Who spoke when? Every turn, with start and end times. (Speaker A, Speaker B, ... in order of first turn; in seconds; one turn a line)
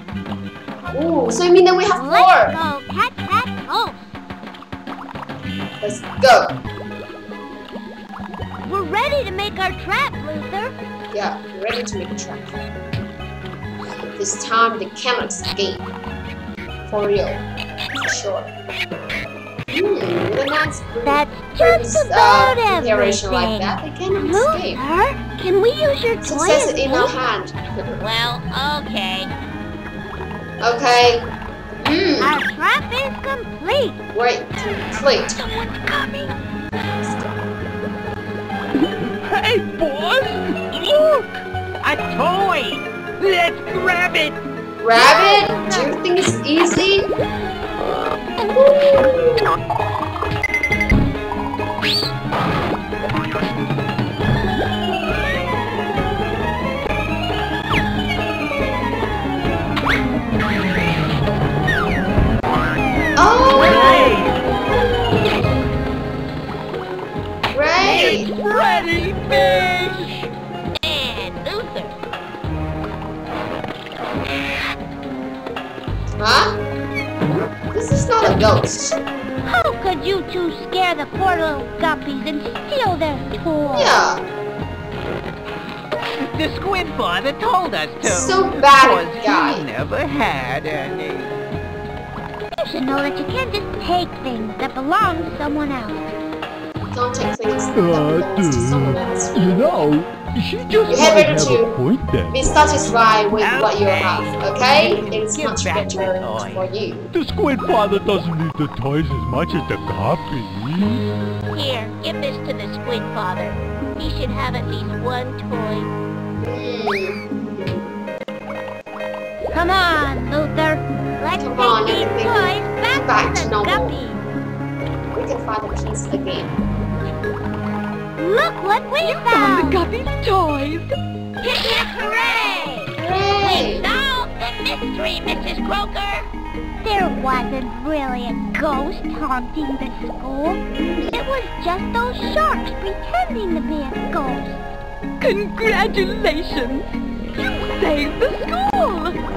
Speaker A: 0.9-2.6
Speaker B: 1.9-4.2
Speaker A: 5.8-6.6
Speaker B: 8.6-10.8
Speaker A: 11.1-12.5
Speaker A: 14.0-15.9
Speaker A: 16.9-18.5
Speaker A: 19.7-24.8
Speaker B: 21.0-27.1
Speaker A: 26.2-28.0
Speaker C: 28.0-29.3
Speaker A: 30.6-32.4
Speaker B: 32.2-34.0
Speaker A: 34.1-35.4
Speaker A: 37.0-37.4
Speaker D: 39.2-41.4
Speaker E: 41.8-44.4
Speaker A: 44.8-47.1
Speaker B: 44.9-45.9
Speaker A: 48.4-49.5
Speaker A: 63.2-64.2
Speaker D: 63.6-64.4
Speaker A: 67.5-68.3
Speaker D: 67.9-69.9
Speaker E: 67.9-69.8
Speaker C: 70.8-72.0
Speaker A: 76.2-76.6
Speaker A: 77.7-79.0
Speaker B: 79.5-84.0
Speaker A: 83.7-84.2
Speaker E: 86.2-91.3
Speaker A: 88.0-89.7
Speaker B: 92.6-96.1
Speaker A: 96.9-99.9
Speaker D: 97.8-102.4
Speaker A: 100.9-101.8
Speaker A: 102.3-107.1
Speaker E: 103.4-106.7
Speaker D: 107.1-111.0
Speaker C: 111.5-115.9
Speaker A: 116.4-117.9
Speaker B: 119.5-124.2
Speaker A: 121.4-124.0
Speaker A: 125.1-126.5
Speaker B: 128.2-129.8
Speaker F: 129.0-130.9
Speaker C: 131.4-136.3
Speaker A: 133.0-133.8
Speaker B: 136.8-140.6
Speaker A: 140.8-141.2
Speaker B: 141.1-144.6
Speaker F: 145.2-146.8
Speaker F: 147.4-149.2